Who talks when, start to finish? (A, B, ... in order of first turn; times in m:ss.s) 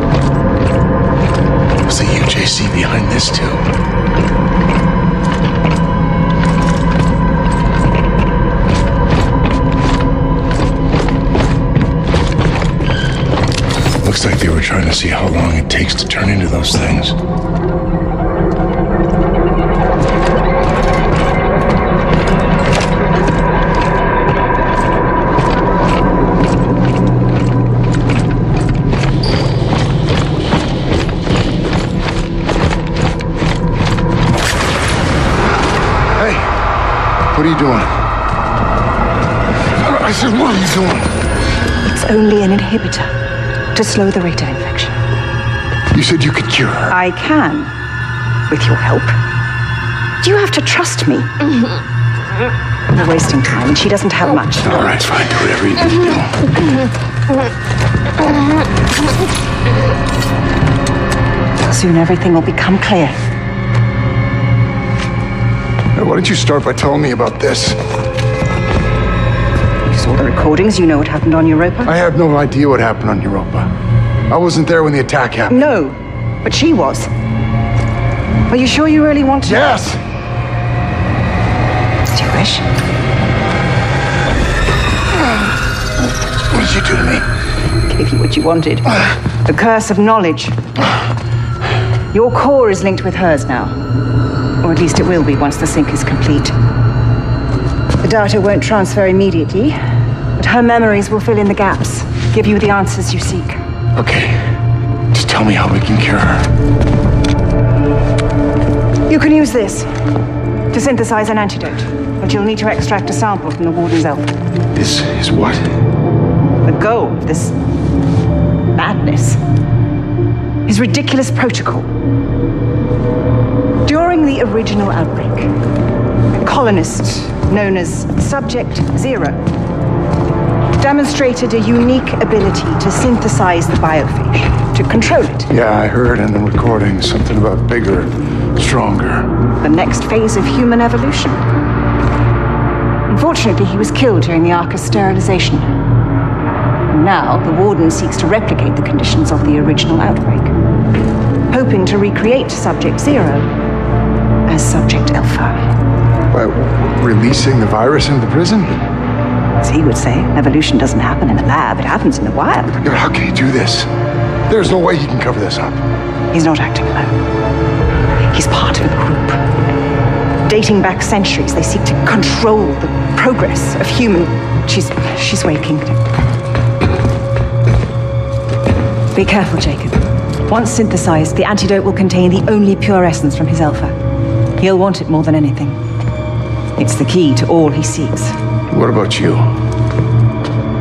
0:01.8-0:03.6 A
0:14.0-0:17.2 A
0:36.2-0:36.5 A
0:37.3-0:37.9 A
0:39.8-0:41.1 A
0:41.8-0:43.1 B
0:43.7-0:45.0 B
0:45.9-0:46.9 A
0:46.9-0:47.7 B
0:48.5-0:49.1 B
0:50.2-0:51.4 B
0:52.9-0:54.9 B
0:54.7-0:56.5 A
1:01.6-1:03.2 B
1:05.9-1:07.8 A
1:09.8-1:11.9 B
1:11.8-1:13.7 A
1:14.3-1:15.7 A
1:15.5-1:17.1 B
1:18.5-1:19.7 B
1:19.4-1:20.0 A
1:22.0-1:22.6 B
1:26.5-1:27.3 A
1:27.8-1:30.6 B
1:32.1-1:33.8 B
1:34.6-1:36.5 B
1:38.0-1:39.8 B
1:40.4-1:43.6 B
1:43.9-1:44.4 A
1:45.1-1:46.5 A
1:49.1-1:49.9 B
1:50.7-1:54.3 B
1:54.7-1:55.6 A
1:56.6-1:57.5 B
1:58.7-1:59.4 B
2:00.6-2:01.9 B
2:03.8-2:05.5 B
2:06.3-2:09.4 B
2:10.8-2:15.5 B
2:15.5-2:19.3 A
2:19.6-2:21.4 B
2:23.1-2:25.7 B
2:26.9-2:30.5 B
2:31.5-2:33.5 B
2:34.5-2:35.7 B
2:36.3-2:38.9 A
2:39.6-2:42.8 B
2:42.8-2:43.9 A
2:44.5-2:45.8 A
2:46.3-2:47.2 B
2:48.3-2:49.4 B
2:50.4-2:56.0 B
2:59.1-3:03.9 B
3:04.6-3:05.8 B
3:06.8-3:08.3 B
3:08.7-3:09.5 A